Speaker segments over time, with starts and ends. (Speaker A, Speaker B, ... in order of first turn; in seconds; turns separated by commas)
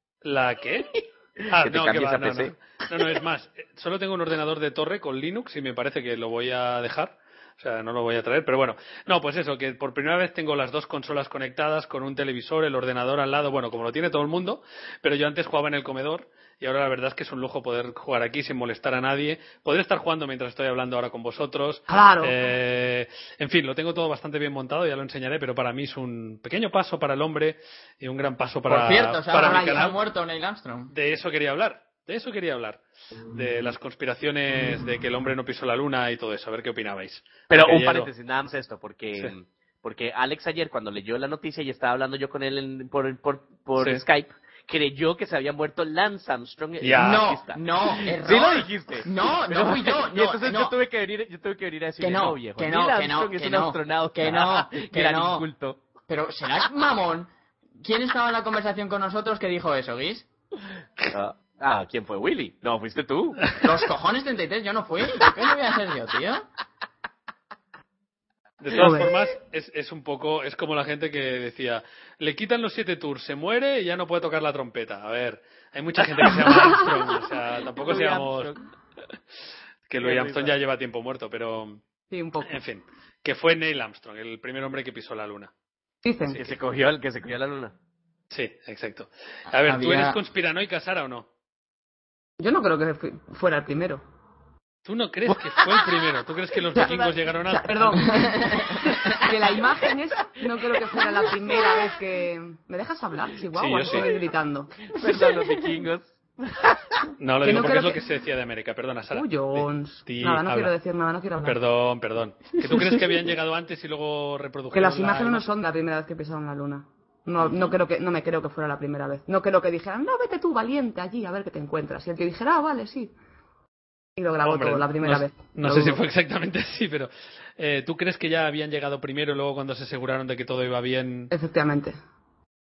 Speaker A: 0.2-30.0, Speaker B: 1.5-3.0, Speaker C: 21.9-22.4, Speaker D: 28.7-30.9, Speaker C: 29.4-29.9, Speaker A: 30.9-38.1, Speaker B: 37.5-55.8, Speaker A: 43.8-44.0, Speaker A: 46.8-47.3, Speaker D: 47.0-50.8, Speaker D: 52.0-55.5, Speaker D: 56.1-57.3, Speaker D: 57.8-60.3, Speaker B: 61.1-63.5, Speaker D: 63.6-66.5, Speaker A: 68.6-78.5, Speaker C: 68.7-69.1, Speaker C: 76.3-76.8, Speaker B: 77.8-78.6, Speaker A: 79.9-81.8, Speaker B: 80.0-80.6, Speaker C: 82.1-82.6, Speaker A: 82.5-85.5, Speaker C: 86.0-86.5, Speaker B: 86.3-87.7, Speaker A: 88.3-91.3, Speaker D: 89.5-90.2, Speaker C: 92.4-94.0, Speaker A: 94.9-98.1, Speaker B: 95.3-95.8, Speaker C: 96.8-104.8, Speaker B: 96.8-97.1, Speaker D: 98.0-99.0, Speaker A: 103.5-104.1, Speaker B: 104.9-107.1, Speaker A: 107.2-110.7, Speaker C: 107.4-108.0, Speaker C: 109.1-111.6, Speaker A: 111.4-115.4, Speaker D: 112.7-113.0, Speaker C: 114.7-123.1, Speaker C: 124.2-126.0, Speaker A: 124.5-131.3, Speaker C: 131.3-132.0